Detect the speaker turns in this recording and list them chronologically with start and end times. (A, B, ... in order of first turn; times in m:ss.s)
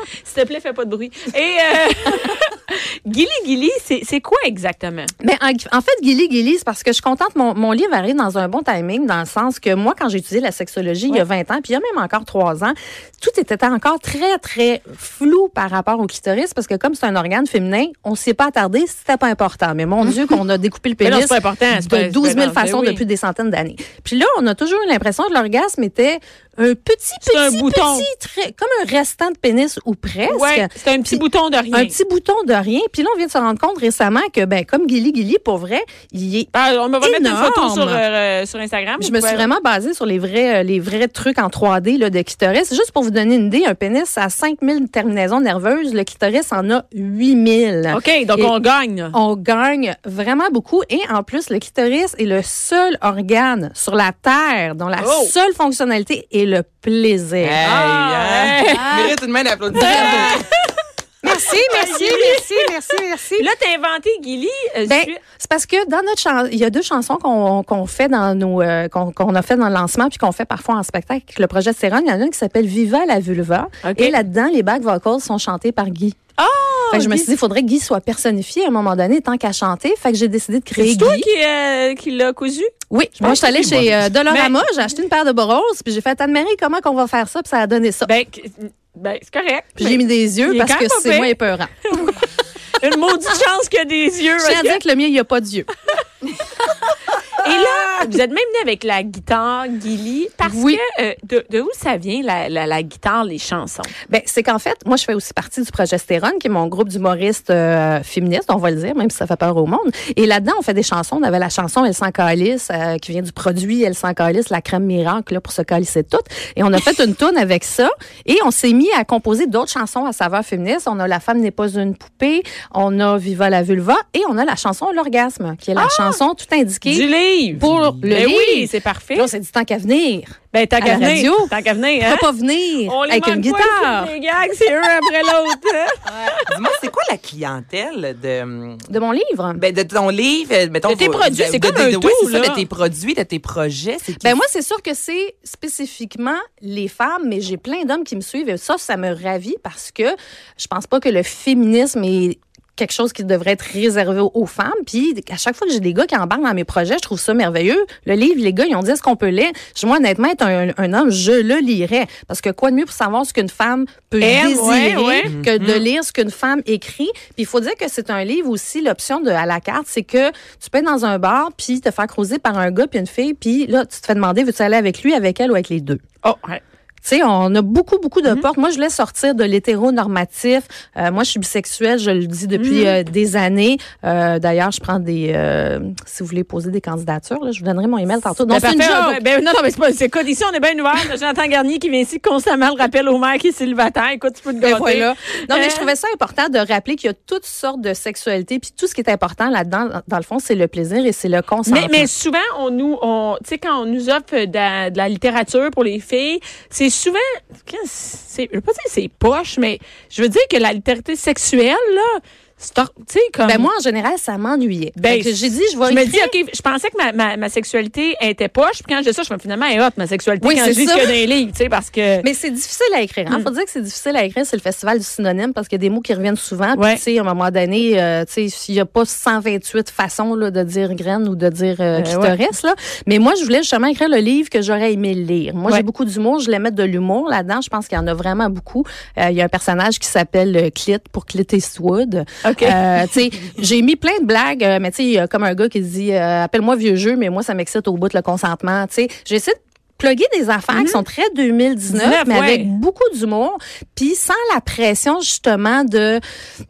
0:00.2-0:05.1 A
0:05.2-0:38.0 B
0:21.0-0:23.0 A
0:27.2-0:28.1 A
0:30.3-0:32.0 A
0:36.5-0:39.5 A
0:39.0-0:48.6 B
0:47.9-0:49.2 A
0:49.1-0:57.6 B
0:55.0-0:55.3 A
0:57.4-1:00.4 C
0:57.6-0:59.0 A
0:58.8-0:59.2 B
0:59.7-1:00.4 B
0:59.8-1:00.7 A
1:01.2-1:03.5 B
1:01.3-1:05.2 A
1:04.9-1:16.2 B
1:13.8-1:14.2 A
1:16.4-1:17.3 A
1:16.9-1:21.3 B
1:20.8-1:24.6 A
1:22.9-1:28.1 B
1:28.0-1:31.3 A
1:29.8-1:32.2 B
1:31.9-1:32.2 A
1:32.8-1:34.8 A
1:34.4-1:35.7 B
1:37.4-1:43.9 A
1:40.4-1:40.8 B
1:44.1-2:14.2 B
2:05.8-2:06.2 A
2:06.8-2:09.3 A
2:07.6-2:08.0 C
2:10.5-2:12.3 A
2:12.8-2:16.5 A
2:16.5-2:18.9 C
2:18.9-2:19.6 B
2:19.6-2:24.4 C
2:20.8-2:22.7 A
2:24.1-2:56.0 B
2:44.2-2:45.3 A
2:45.3-2:45.9 C
2:56.2-2:56.6 A
2:57.0-3:09.2 B
3:02.5-3:03.0 A
3:08.5-3:15.9 A
3:14.6-3:22.1 B
3:21.6-3:33.7 A
3:33.4-3:36.4 B
3:35.0-3:42.3 A
3:40.4-3:41.2 B
3:42.2-4:16.2 B
3:46.8-3:47.0 A
3:51.9-3:52.4 A
4:02.4-4:02.8 A
4:10.7-4:11.0 A
4:11.9-4:12.7 A